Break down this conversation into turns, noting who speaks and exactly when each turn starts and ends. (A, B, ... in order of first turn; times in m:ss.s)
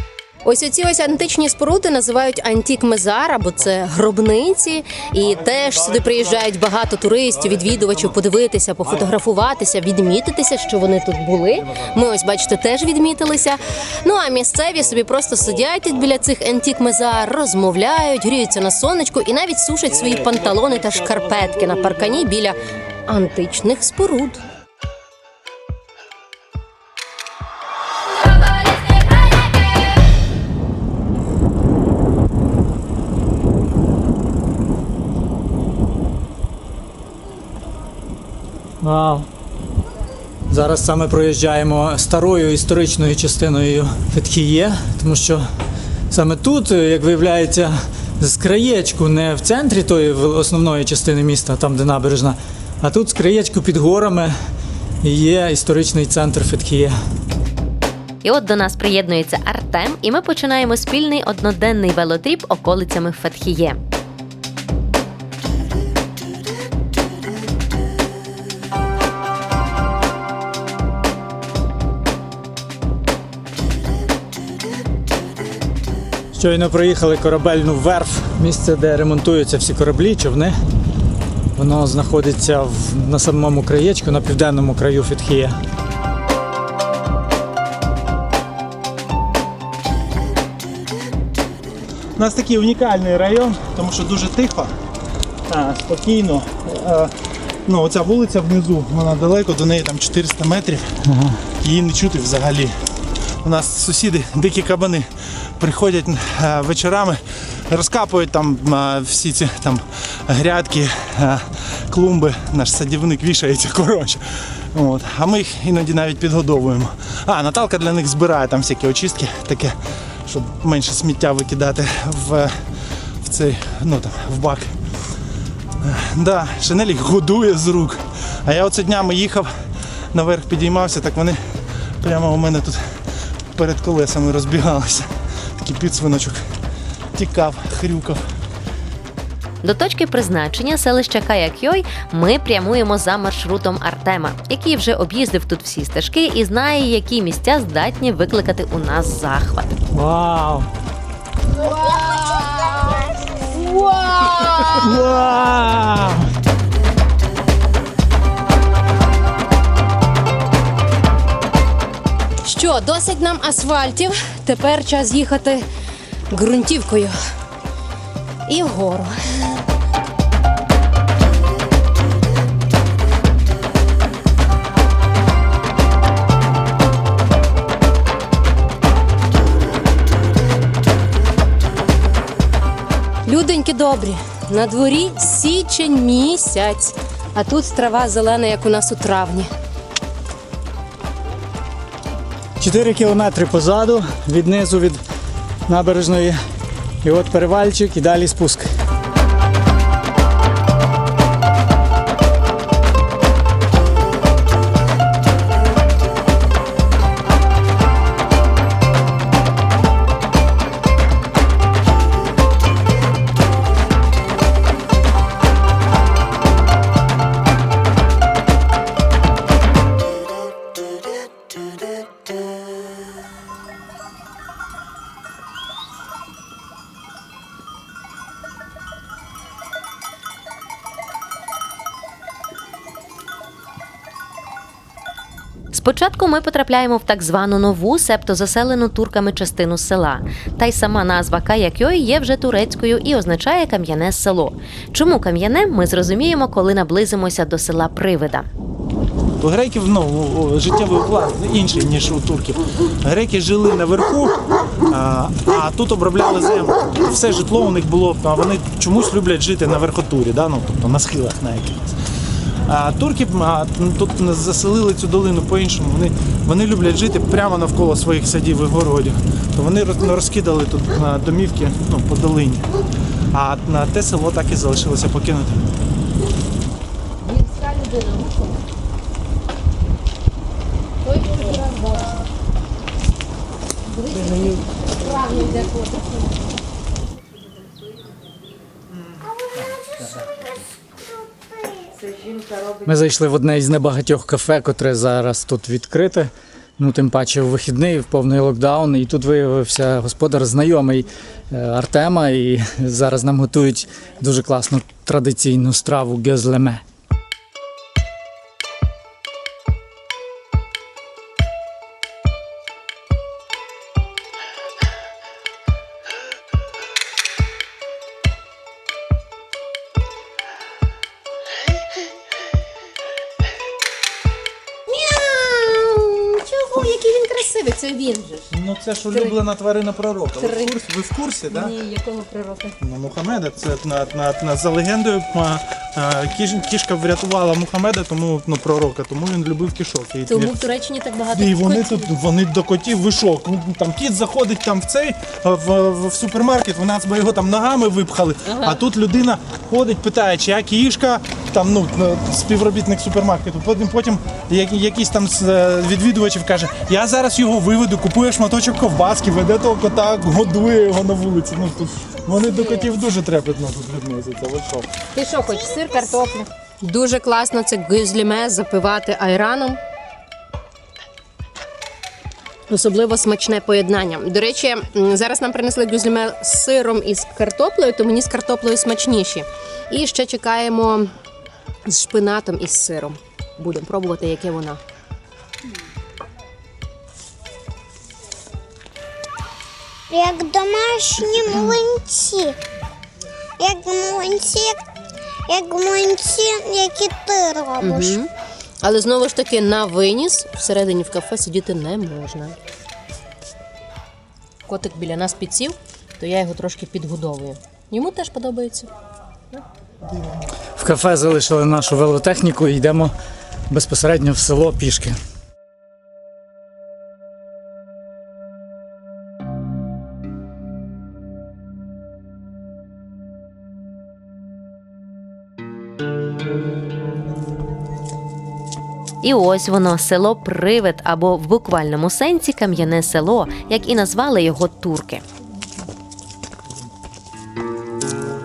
0:00.4-0:24.4 A
0:38.8-0:39.3 B
0:40.5-0:45.5 B
0:46.1-0:54.3 B
0:55.0-0:57.0 B
0:58.2-1:03.8 C
1:16.3-1:20.6 B
1:21.5-1:25.6 B
1:32.2-1:34.7 D
1:35.5-1:37.1 D
1:37.6-1:40.9 D
1:41.1-1:41.4 B
1:41.5-1:42.7 D
1:43.4-2:02.5 D
2:03.2-2:04.8 D
2:05.8-2:09.5 D
2:10.1-2:11.4 D
2:12.0-2:12.8 D
2:13.5-2:15.1 D
2:15.6-2:16.4 D
2:17.1-2:18.2 D
2:19.6-2:29.7 C
2:29.9-2:30.7 B
2:31.5-2:35.0 A
2:34.8-2:36.3 B
2:42.4-2:45.6 A
2:46.3-2:47.1 A
2:48.5-2:49.1 A
3:03.2-3:09.5 A
3:12.6-3:15.0 B
3:15.7-3:16.4 B
3:17.0-3:18.7 B
3:55.7-4:08.5 C
4:09.4-4:22.0 D
4:22.6-4:32.7 D
4:33.3-4:35.6 D
4:37.2-4:38.6 A
4:41.0-4:42.2 A
4:43.9-4:46.3 A
4:49.6-4:50.3 E
4:51.3-4:51.7 E
4:52.8-5:06.8 B
5:24.9-5:28.5 A
5:28.5-5:31.7 D
5:29.1-5:29.4 A
5:30.4-5:30.8 A
5:31.5-5:32.8 A
5:32.8-5:40.5 D
5:40.3-5:42.1 A
5:41.3-6:04.9 D
5:48.5-5:48.8 A
6:02.4-6:02.9 A
6:05.1-6:09.8 A
6:05.6-6:05.9 E
6:12.7-6:21.1 A
6:21.8-6:24.8 A
6:30.1-6:32.6 E
6:33.6-6:34.8 E
6:35.5-6:38.2 E
6:37.8-6:38.3 A
6:38.8-6:42.6 A
6:44.7-6:48.9 A
6:50.8-6:53.1 B
6:53.7-6:55.2 B
7:09.2-7:15.2 C